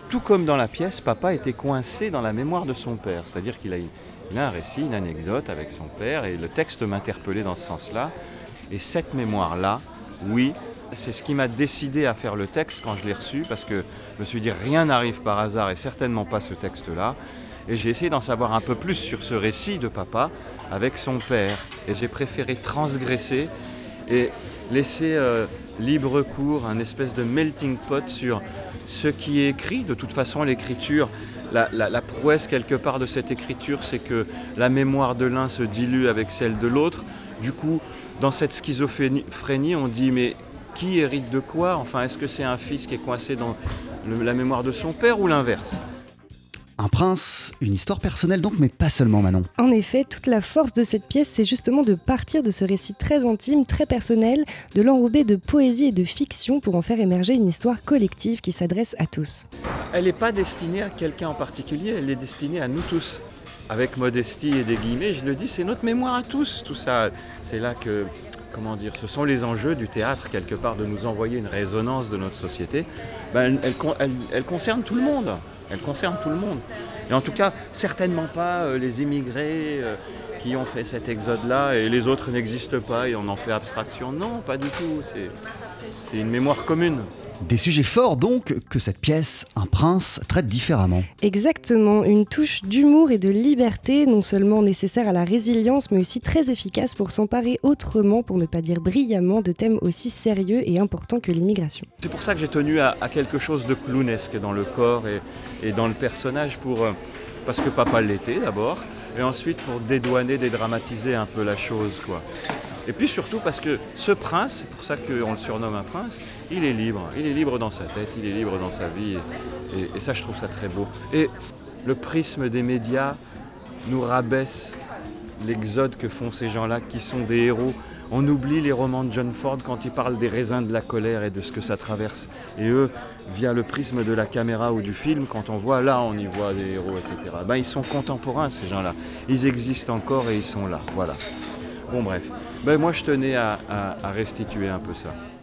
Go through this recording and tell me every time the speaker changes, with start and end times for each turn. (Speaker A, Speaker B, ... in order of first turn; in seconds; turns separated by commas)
Speaker A: 0.1-8.1, Speaker A: 8.7-23.5, Speaker A: 24.1-45.8, Speaker B: 46.8-49.5, Speaker C: 49.6-59.4, Speaker A: 59.9-85.3, Speaker A: 86.0-87.1, Speaker B: 87.4-91.1, Speaker C: 91.2-101.9, Speaker A: 102.0-106.9, Speaker A: 107.5-112.2, Speaker A: 112.8-121.3, Speaker A: 121.8-123.2, Speaker A: 123.8-124.8, Speaker A: 125.4-141.2, Speaker A: 141.9-145.2